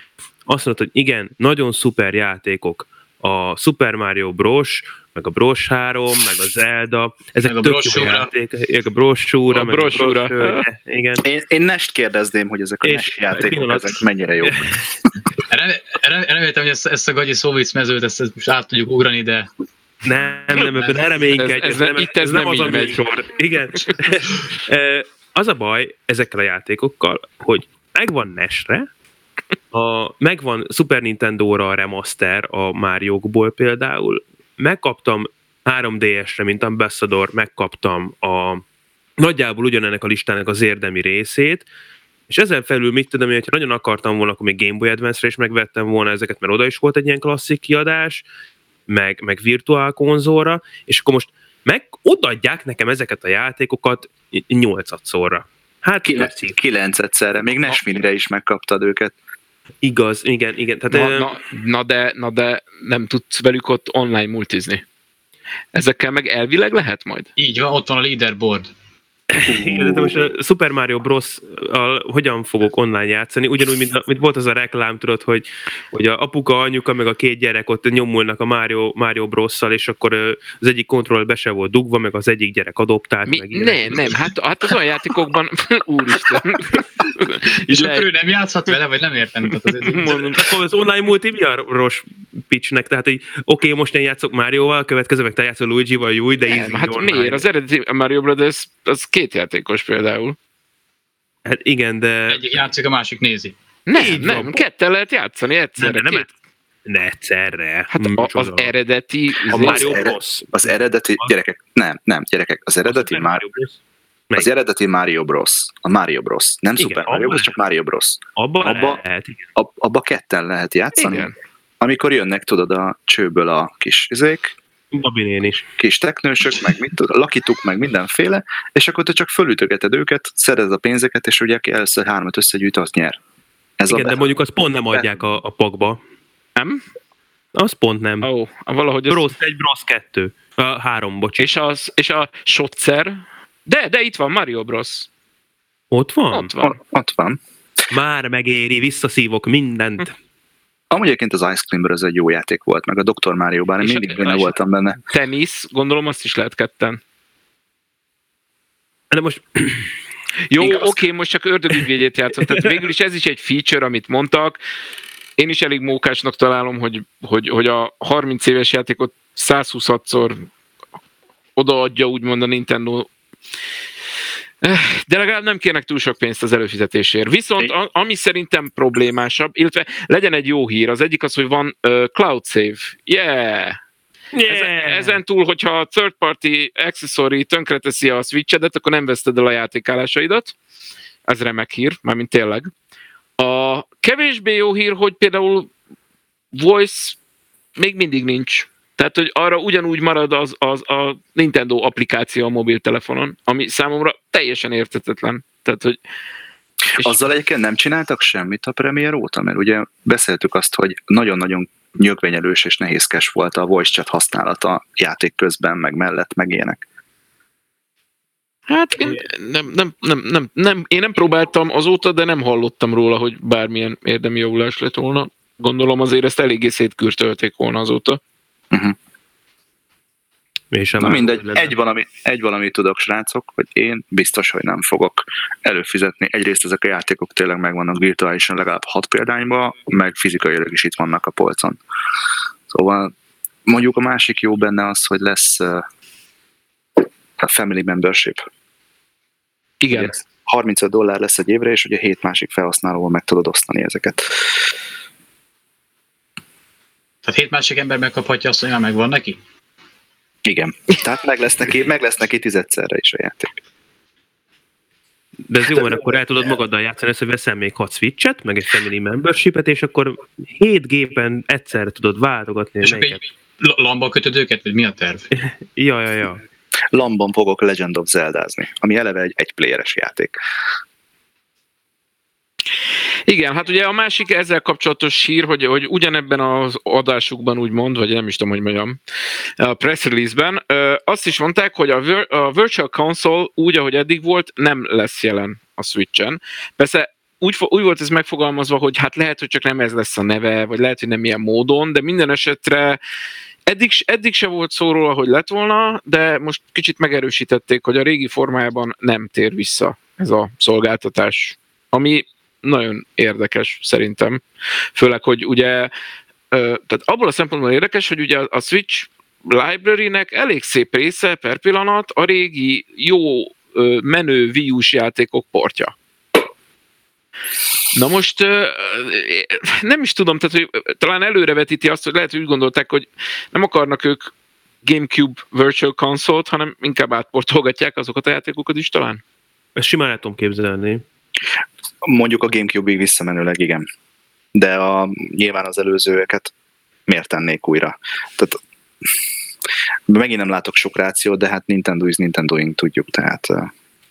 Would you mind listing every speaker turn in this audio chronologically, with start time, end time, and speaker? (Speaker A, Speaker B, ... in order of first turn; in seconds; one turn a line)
Speaker A: 0.5-11.2
Speaker B: 7.4-8.3
Speaker C: 9.5-10.6
Speaker D: 11.2-14.8
Speaker A: 12.8-14.8
Speaker B: 15.5-19.5
Speaker A: 20.0-28.9
Speaker B: 20.5-20.9
Speaker C: 21.4-23.3
Speaker A: 29.7-38.6
Speaker A: 39.2-41.6
Speaker A: 42.3-48.2
Speaker A: 48.9-56.6
Speaker D: 56.0-59.1
Speaker A: 59.8-61.4
Speaker C: 60.9-64.8
Speaker C: 65.7-67.3
Speaker B: 67.4-68.7
Speaker A: 69.3-84.2
Speaker D: 69.5-70.3
Speaker C: 83.3-88.1
Speaker B: 87.7-90.4
Speaker C: 89.8-90.4
Speaker A: 90.1-97.5
Speaker C: 96.4-100.3
Speaker A: 101.4-102.4
Speaker B: 102.3-103.5
Speaker C: 103.9-106.3
Speaker A: 103.9-104.6
Speaker A: 105.8-106.3
Speaker A: 106.8-108.7
Speaker C: 107.9-109.9
Speaker A: 109.5-110.6
Speaker D: 109.5-113.5
Speaker A: 112.8-113.7
Speaker D: 114.3-119.0
Speaker A: 116.8-117.5
Speaker A: 118.4-119.4
Speaker D: 119.5-121.3
Speaker C: 120.9-121.3
Speaker D: 121.8-124.5
Speaker A: 124.9-125.6
Speaker D: 125.8-133.2
Speaker D: 133.8-134.3
Speaker A: 133.9-136.0
Speaker C: 136.6-136.8
Speaker A: 137.5-138.3
Speaker C: 138.2-139.3
Speaker A: 139.1-141.4
Speaker C: 141.4-145.1
Speaker A: 145.9-146.5
Speaker C: 146.3-146.7
Speaker D: 146.6-147.4
Speaker A: 147.9-150.1
Speaker D: 150.9-155.0
Speaker C: 153.8-154.5
Speaker C: 155.1-157.0
Speaker A: 159.1-159.9
Speaker C: 160.5-164.6
Speaker A: 160.6-161.0
Speaker C: 165.4-170.5
Speaker C: 171.6-173.1
Speaker C: 174.6-183.8
Speaker A: 184.3-185.2
Speaker C: 184.4-190.5
Speaker C: 191.3-192.7
Speaker C: 193.4-195.7
Speaker C: 196.5-197.2
Speaker C: 197.8-205.9
Speaker D: 206.9-216.8
Speaker C: 218.7-228.2
Speaker D: 228.7-228.9
Speaker A: 230.7-231.7
Speaker D: 231.0-241.8
Speaker D: 242.7-243.1
Speaker D: 243.7-245.8
Speaker D: 247.4-248.4
Speaker C: 249.8-250.1
Speaker D: 249.9-254.6
Speaker B: 257.2-259.4
Speaker D: 260.4-263.5
Speaker A: 265.5-273.2
Speaker D: 265.6-266.2
Speaker B: 272.8-275.3
Speaker A: 275.3-276.4
Speaker D: 276.9-280.3
Speaker C: 283.3-289.0
Speaker C: 289.6-303.0
Speaker C: 303.7-314.4
Speaker C: 314.9-315.9
Speaker C: 316.5-325.9
Speaker C: 327.9-334.3
Speaker C: 334.8-339.2
Speaker A: 339.8-341.0
Speaker D: 342.0-343.9
Speaker D: 344.5-346.5
Speaker D: 347.1-348.6
Speaker D: 350.1-353.7